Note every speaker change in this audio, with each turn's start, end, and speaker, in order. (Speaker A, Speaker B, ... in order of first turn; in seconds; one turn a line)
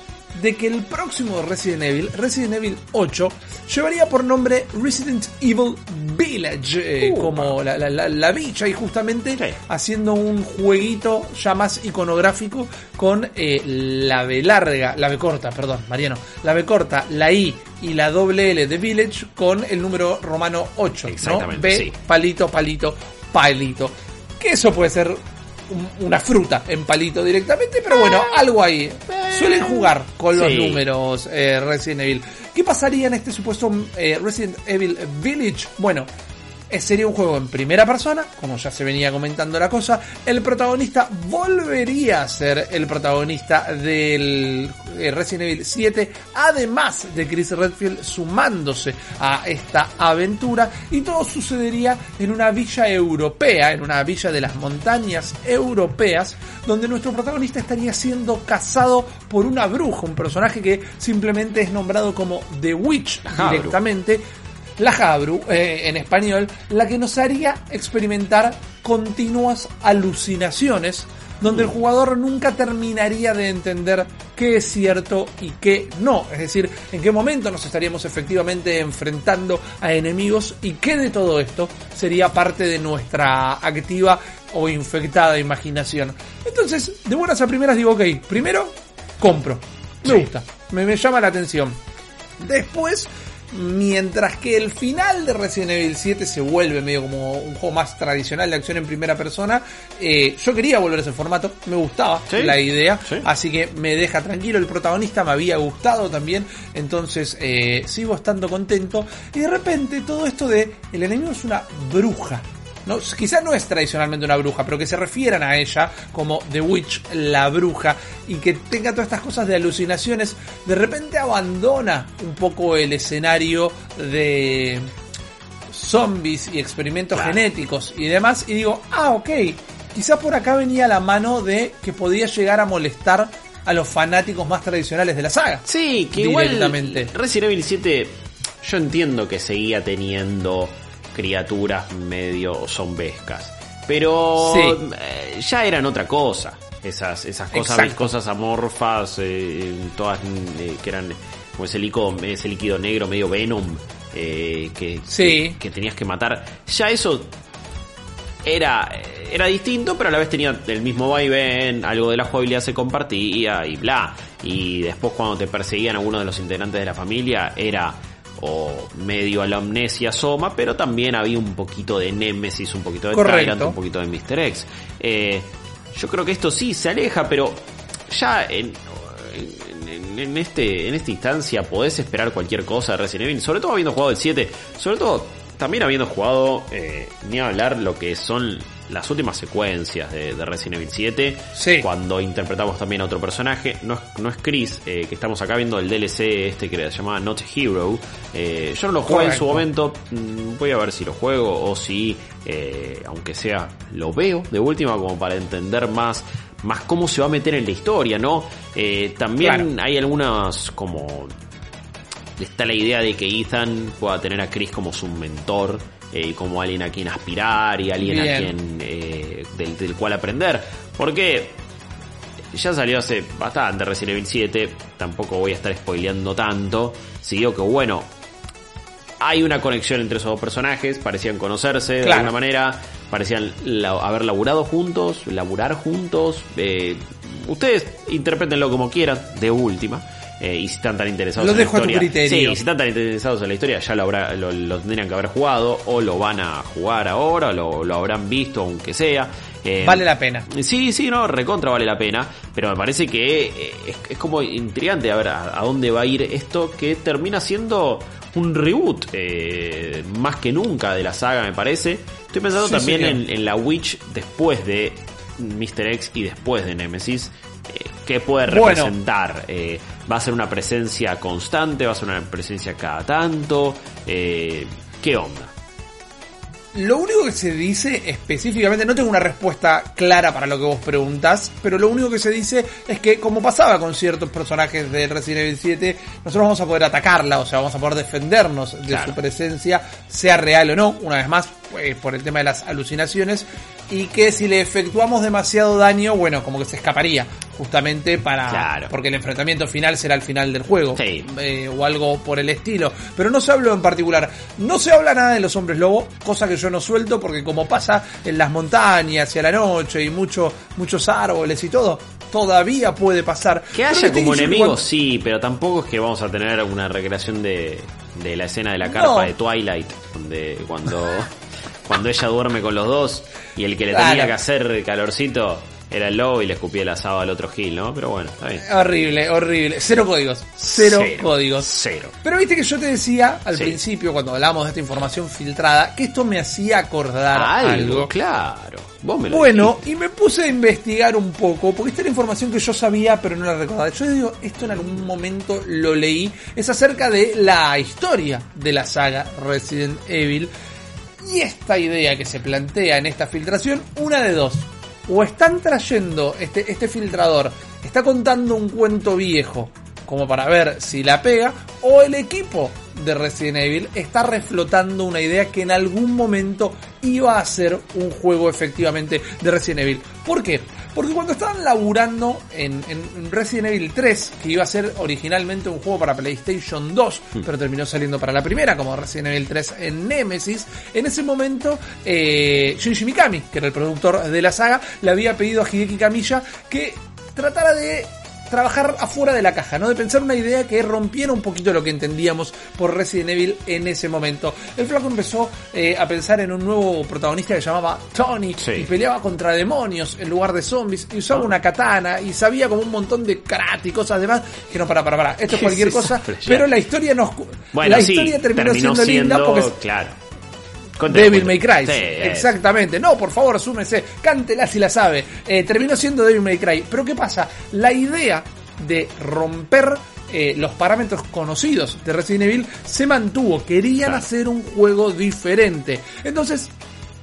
Speaker A: 0.3-36.1
Speaker B: 7.0-7.6
Speaker B: 21.1-21.9
Speaker B: 29.1-30.8
Speaker A: 36.7-64.2
Speaker B: 63.3-63.8
Speaker A: 64.8-91.8
Speaker B: 71.5-71.8
Speaker A: 92.4-124.9
Speaker B: 102.3-103.3
Speaker A: 125.7-137.1
Speaker B: 127.1-127.4
Speaker B: 135.7-157.3
Speaker A: 144.4-144.8
Speaker A: 147.5-148.1
Speaker A: 155.1-155.6
Speaker B: 158.4-211.3
Speaker A: 173.1-173.8
Speaker A: 191.5-191.9
Speaker A: 199.0-199.7
Speaker A: 209.4-209.7
Speaker B: 212.4-221.6
Speaker A: 218.0-218.6
Speaker B: 222.5-228.1
Speaker B: 229.2-275.5
Speaker A: 232.0-232.3
Speaker A: 241.4-242.6
Speaker A: 249.8-250.5
Speaker A: 262.6-263.2
Speaker A: 268.5-269.0
Speaker A: 276.7-314.8
Speaker B: 288.9-289.2
Speaker B: 298.5-298.9
Speaker B: 301.0-301.3
Speaker B: 313.7-321.3
Speaker A: 318.9-319.3
Speaker B: 321.9-328.6
Speaker A: 323.9-324.4
Speaker A: 328.6-331.7
Speaker B: 330.7-332.1
Speaker A: 332.2-338.1
Speaker B: 333.5-333.8
Speaker B: 337.3-339.8
Speaker A: 339.3-350.5
Speaker A: 351.2-409.8
Speaker B: 398.6-398.9
Speaker B: 405.5-406.7
Speaker B: 407.7-410.2
Speaker B: 411.0-412.6
Speaker A: 411.1-426.7